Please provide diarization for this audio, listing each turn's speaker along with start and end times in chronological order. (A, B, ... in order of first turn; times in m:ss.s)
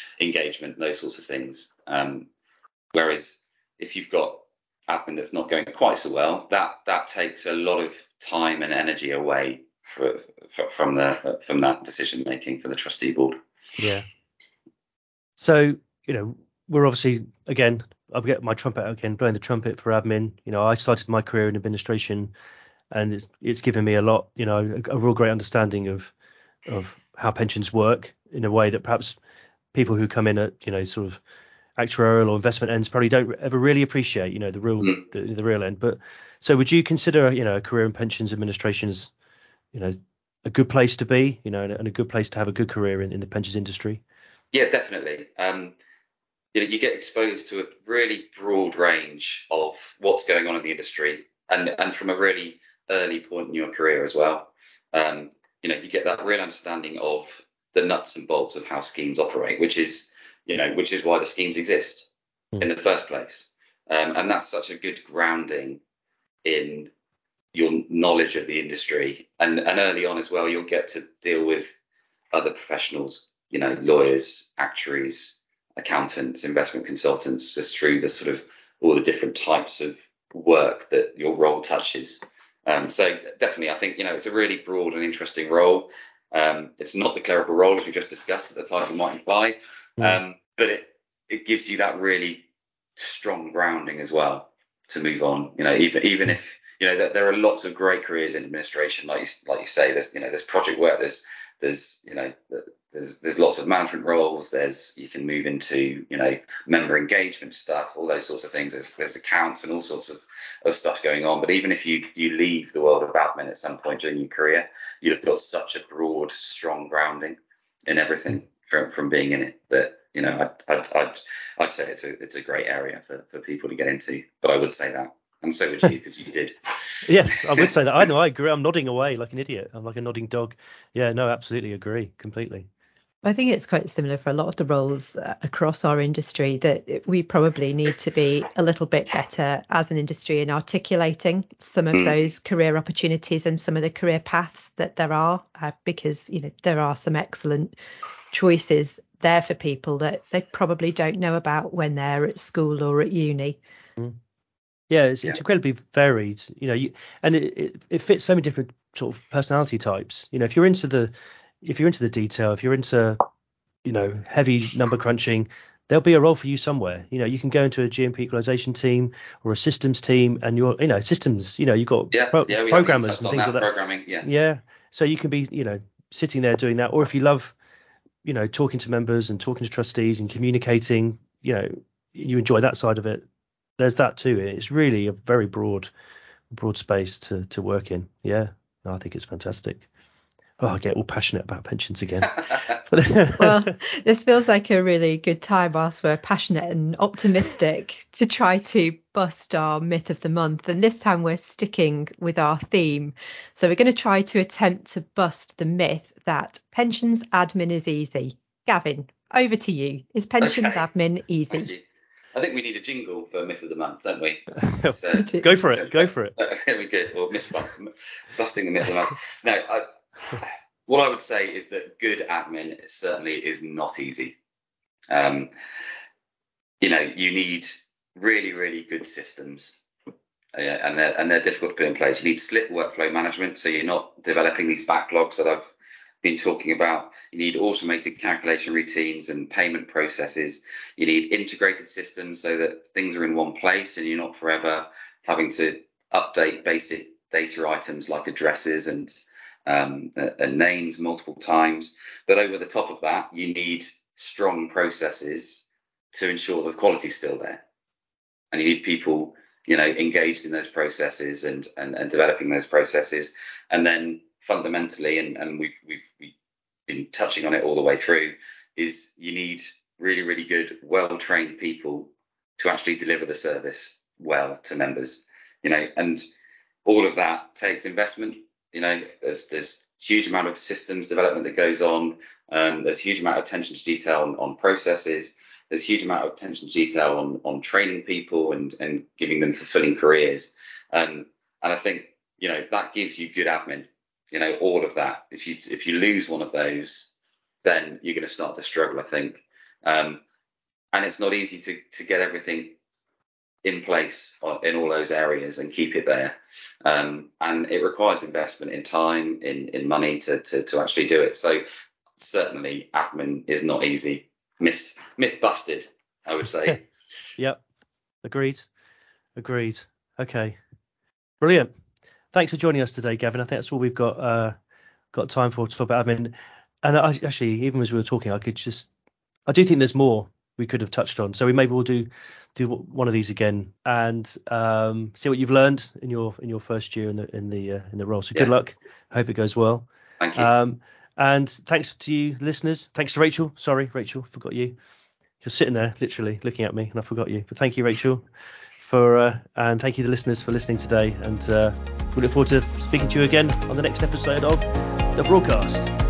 0:00.2-0:02.3 A
0:02.9-0:13.4 A
0:13.8-0:14.1 B
0:15.4-0:22.3 B
0:22.9-0:26.1 B
0:26.7-0:29.2 B
0:29.7-0:31.2 B
0:31.8-0:39.1 B
0:39.7-0:44.0 B
0:44.5-0:45.8 A
0:46.5-1:02.1 A
1:02.6-1:05.8 A
1:06.4-1:06.9 A
1:07.5-1:11.8 A
1:12.3-2:06.6 A
2:07.0-2:12.7 B
2:13.2-2:27.8 C
2:28.3-2:33.6 C
2:34.9-2:43.2 B
2:43.8-2:53.7 B
2:52.1-2:54.3 A
2:54.2-2:57.6 B
2:58.2-3:03.2 B
3:03.8-3:05.9 B
3:06.5-3:09.9 B
3:10.6-3:13.7 B
3:13.4-3:31.7 C
3:30.4-3:30.8 A
3:31.5-3:44.4 A
3:34.6-3:36.4 B
3:35.2-3:35.5 C
3:45.1-3:45.5 A
3:46.8-3:49.8 A
3:50.6-4:17.6 A
4:18.5-4:26.4 A
4:26.9-4:36.2 A
4:36.8-4:57.1 A
4:57.6-5:00.2 A
5:00.9-5:02.8 A
5:03.6-5:11.6 A
5:12.2-5:16.9 A
5:18.2-5:18.7 B
5:19.4-5:20.6 B
5:21.4-5:21.7 B
5:22.3-5:24.6 B
5:25.1-5:28.9 B
5:29.5-5:44.8 B
5:40.2-5:40.5 A
5:45.4-5:48.2 B
5:48.8-5:55.9 B